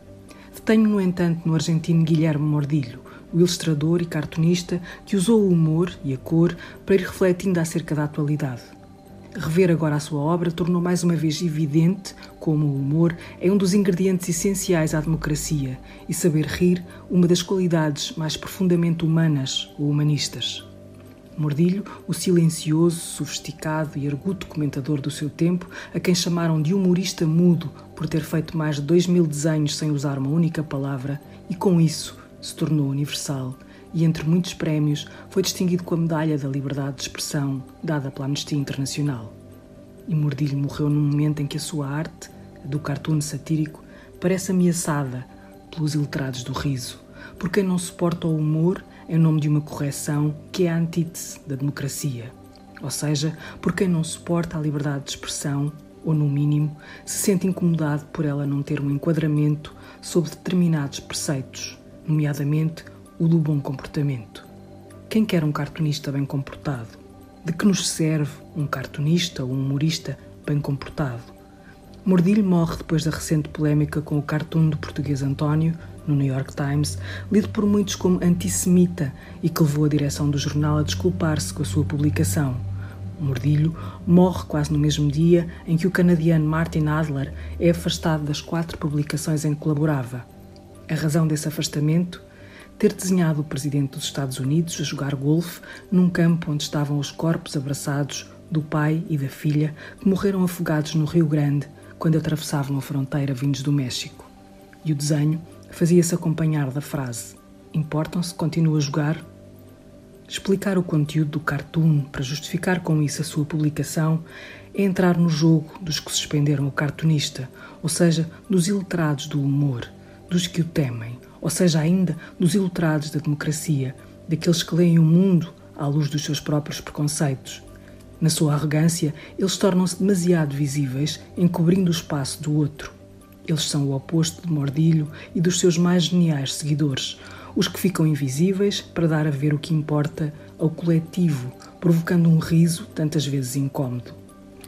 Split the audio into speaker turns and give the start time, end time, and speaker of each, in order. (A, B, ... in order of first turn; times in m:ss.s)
0:00.5-0:08.7 A
0:09.4-0:20.7 A
0:21.4-0:39.4 A
0:40.1-1:04.5 A
1:05.1-1:11.3 A
1:12.0-1:22.6 A
1:23.2-1:30.2 A
1:30.9-1:32.2 A
1:32.8-1:44.3 A
1:44.8-1:49.2 A
1:50.3-2:07.6 A
2:08.2-2:24.2 A